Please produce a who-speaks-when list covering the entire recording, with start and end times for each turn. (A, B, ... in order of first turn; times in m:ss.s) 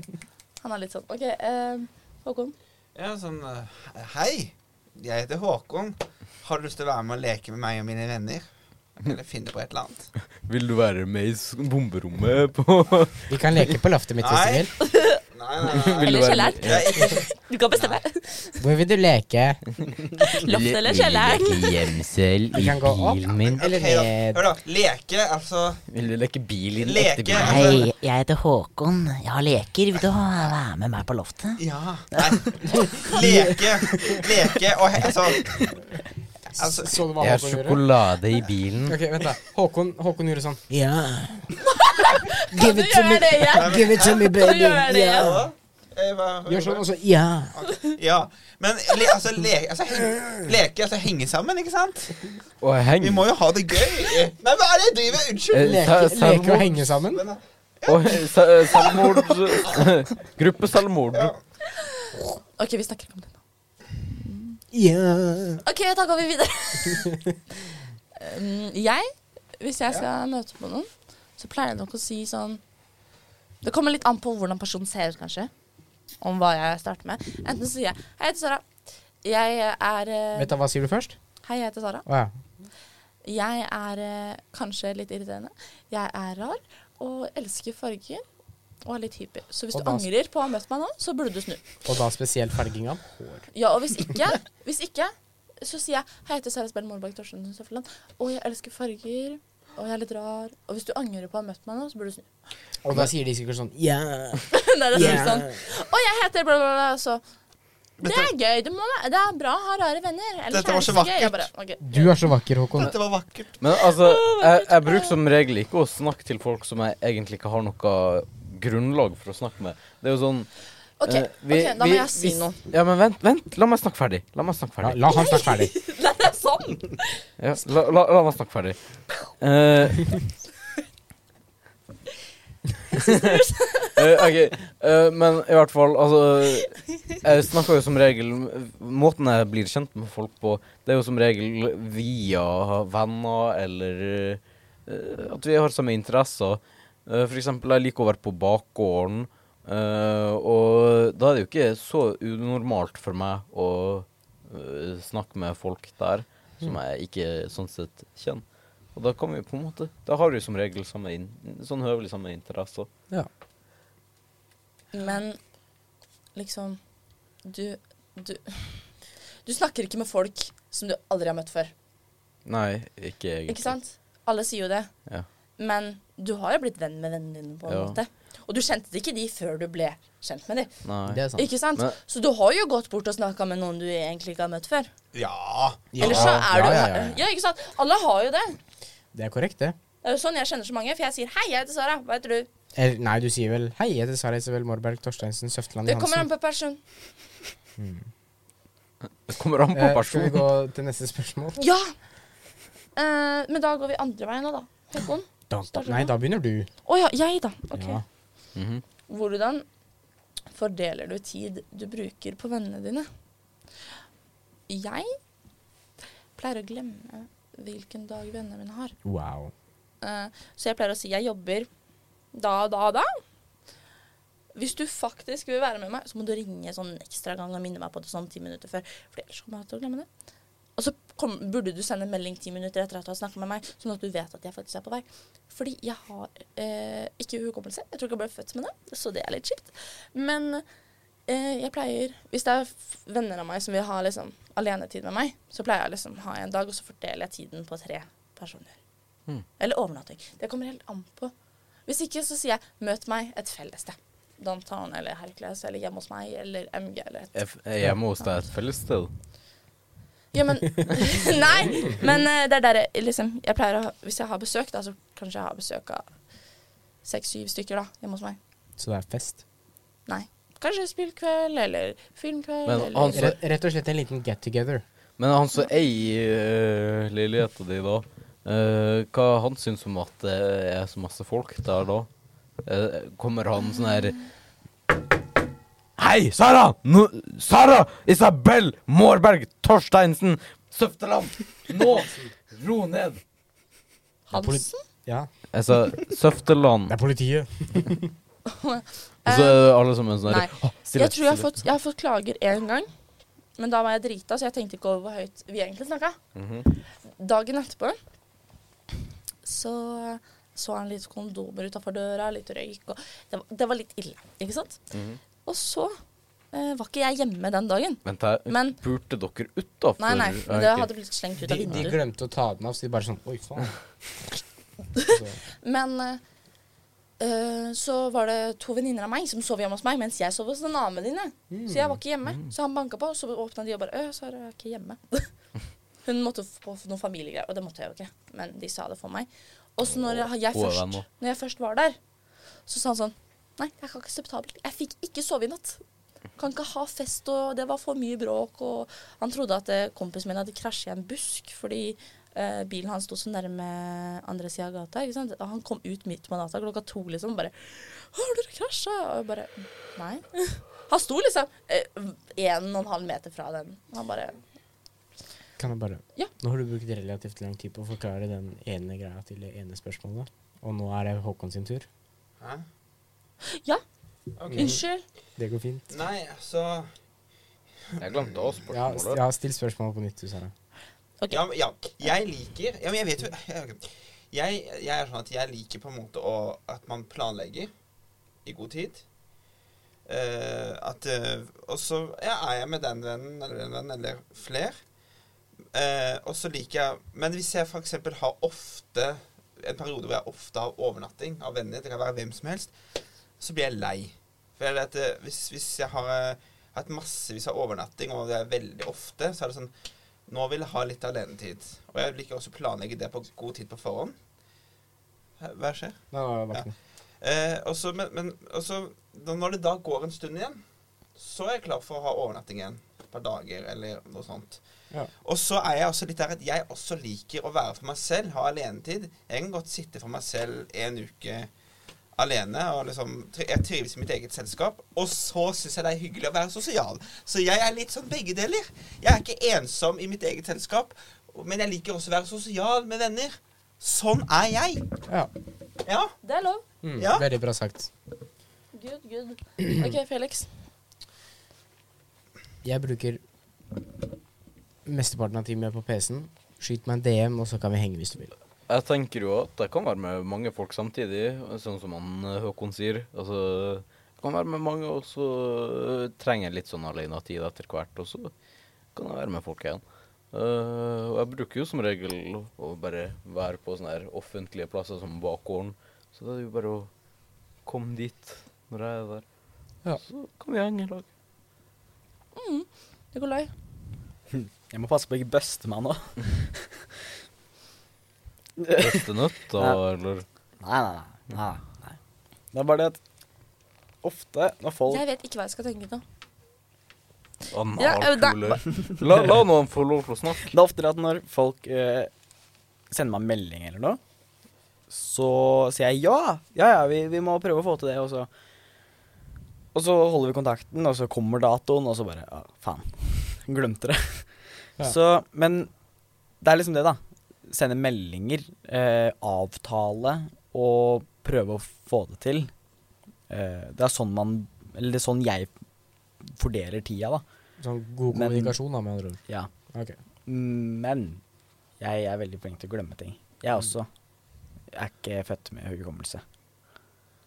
0:00.6-0:02.5 A
0:02.9-0:08.4 B
0:09.0-0:10.1 B
0:10.4-0:13.6 C
0:13.3-0:14.7 D
0:14.2-0:18.0 B
0:14.8-0:15.2 A
0:15.7-0:16.9 C
0:16.0-0:18.6 A
0:18.6-0:19.6 D
0:20.2-0:21.9 A
0:20.5-0:23.6 C
0:22.5-0:24.4 D
0:23.4-0:25.8 B
0:25.9-0:27.8 C
0:26.8-0:27.9 B
0:27.4-0:31.6 E
0:31.6-0:35.8 B
0:33.0-0:33.5 D
0:36.6-0:37.0 B
0:36.6-0:37.8 D
0:37.2-0:39.0 C
0:38.8-0:41.5 D
0:41.6-0:45.4 A
0:42.5-0:45.4 D
0:43.5-0:44.4 B
0:45.1-0:46.8 B
0:46.4-0:47.6 D
0:47.5-0:52.3 B
0:52.6-0:53.3 C
0:53.0-0:55.9 B
0:55.5-0:56.7 C
0:55.5-0:57.2 D
0:57.0-0:59.9 B
0:57.9-1:01.3 C
1:01.1-1:01.4 B
1:01.7-1:03.4 A
1:04.2-1:04.6 A
1:04.7-1:05.6 D
1:05.6-1:07.2 A
1:06.9-1:07.3 D
1:08.2-1:12.6 A
1:13.6-1:15.5 A
1:16.2-1:18.6 A
1:19.2-1:20.5 A
1:20.4-1:21.2 D
1:21.4-1:22.0 A
1:22.0-1:22.3 D
1:23.2-1:28.2 A
1:28.8-1:31.7 A
1:29.7-1:30.1 D
1:31.8-1:33.4 D
1:33.5-1:42.3 A
1:42.8-1:45.6 D
1:44.5-1:47.2 A
1:48.0-1:48.3 B
1:48.0-1:52.1 A
1:50.5-1:51.5 B
1:51.8-1:52.9 D
1:52.7-1:53.6 B
1:53.6-2:00.5 C
1:53.7-1:55.2 A
2:01.0-2:02.6 A
2:01.0-2:05.1 C
2:04.8-2:05.7 D
2:05.1-2:07.2 A
2:07.4-2:10.3 C
2:12.9-2:14.3 A
2:13.0-2:13.4 C
2:13.9-2:42.9 C
2:44.9-2:45.4 A
2:46.3-2:46.8 A
2:47.4-2:48.9 A
2:49.4-2:51.7 A
2:52.4-2:53.7 C
2:53.5-2:54.9 A
2:55.6-3:00.7 A
2:57.7-2:58.0 C
3:00.8-3:01.2 C
3:01.1-3:01.5 D
3:01.4-3:04.9 A
3:05.1-3:06.4 B
3:05.9-3:07.2 D
3:06.0-3:08.6 A
3:09.1-3:09.8 D
3:10.0-3:12.5 A
3:12.8-3:16.3 D
3:15.8-3:16.8 A
3:17.8-3:18.1 D
3:19.3-3:20.5 C
3:19.7-3:21.6 D
3:21.6-3:21.9 A
3:23.0-3:26.1 A
3:25.5-3:26.7 D
3:26.8-3:28.0 A
3:27.7-3:28.0 D
3:28.5-3:28.8 C
3:29.1-3:29.6 A
3:30.5-3:33.1 A
3:34.7-3:35.2 A
3:36.4-3:38.9 A
3:39.0-3:39.5 D
3:40.0-3:41.7 A
3:42.3-3:43.2 A
3:44.5-3:50.1 A
3:50.8-4:00.6 A
4:01.3-4:08.8 A
4:09.6-4:11.3 A
4:11.9-4:17.4 A
4:17.3-4:19.1 C
4:20.3-4:26.0 A
4:27.0-4:28.4 A
4:28.8-4:29.4 D
4:30.1-4:33.3 A
4:32.6-4:33.4 C
4:33.1-4:34.8 D
4:35.2-4:42.1 C
4:42.6-4:44.2 C
4:46.0-4:53.2 C
4:54.3-4:54.8 A
4:54.3-4:55.3 D
4:55.5-4:57.0 C
4:56.9-4:58.1 D
4:58.4-4:59.7 A
4:59.2-5:01.5 C
5:00.2-5:02.9 A
5:03.6-5:06.2 A
5:06.3-5:06.6 C
5:07.0-5:08.0 A
5:09.4-5:14.8 A
5:14.9-5:15.2 C
5:15.4-5:16.0 A
5:16.5-5:18.8 A
5:18.0-5:20.9 C
5:20.0-5:22.0 A
5:21.4-5:23.8 D
5:24.9-5:26.2 A
5:25.1-5:25.4 D
5:27.2-5:35.3 A
5:31.5-5:32.0 D
5:36.0-5:42.0 A
5:40.2-5:41.0 C
5:42.7-5:45.8 A
5:46.4-6:04.4 A
6:05.6-6:11.8 D
6:13.5-6:13.8 A
6:14.4-6:14.8 B
6:14.5-6:14.8 D
6:14.5-6:15.0 A
6:15.4-6:15.9 D
6:15.9-6:16.9 B
6:18.0-6:19.2 C
6:18.7-6:20.5 D
6:21.3-6:27.7 B
6:28.4-6:29.0 B
6:30.0-6:34.8 B
6:35.7-6:42.7 B
6:43.4-6:49.7 B
6:50.3-6:54.2 B
6:55.4-6:56.7 B
6:56.1-6:56.7 D
6:57.2-7:00.6 B
7:01.2-7:04.6 B
7:05.2-7:11.5 B
7:12.2-7:24.9 B
7:25.8-7:26.1 B
7:26.2-7:26.6 A
7:26.8-7:27.9 D
7:27.0-7:27.2 B
7:28.7-7:30.5 A
7:32.6-7:33.2 D
7:34.8-7:38.3 D
7:38.7-7:48.3 C
7:48.9-7:56.9 C
7:57.6-7:59.2 C
8:00.1-8:01.0 C
8:02.3-8:03.5 A
8:04.3-8:06.7 F
8:08.6-8:09.0 F
8:08.8-8:10.2 C
8:09.5-8:09.8 F
8:10.6-8:12.0 F
8:12.5-8:13.0 F
8:14.0-8:15.0 F
8:14.9-8:16.0 A
8:17.5-8:20.5 C
8:17.8-8:18.6 A
8:20.5-8:22.1 F
8:22.9-8:24.0 F
8:24.9-8:28.3 F
8:29.7-8:35.7 F
8:36.4-8:42.5 F
8:43.3-8:45.5 F
8:46.2-8:47.2 F
8:47.6-8:49.2 D
8:48.1-8:48.5 F
8:50.2-8:51.2 F
8:51.8-8:53.9 F
8:54.7-8:56.2 F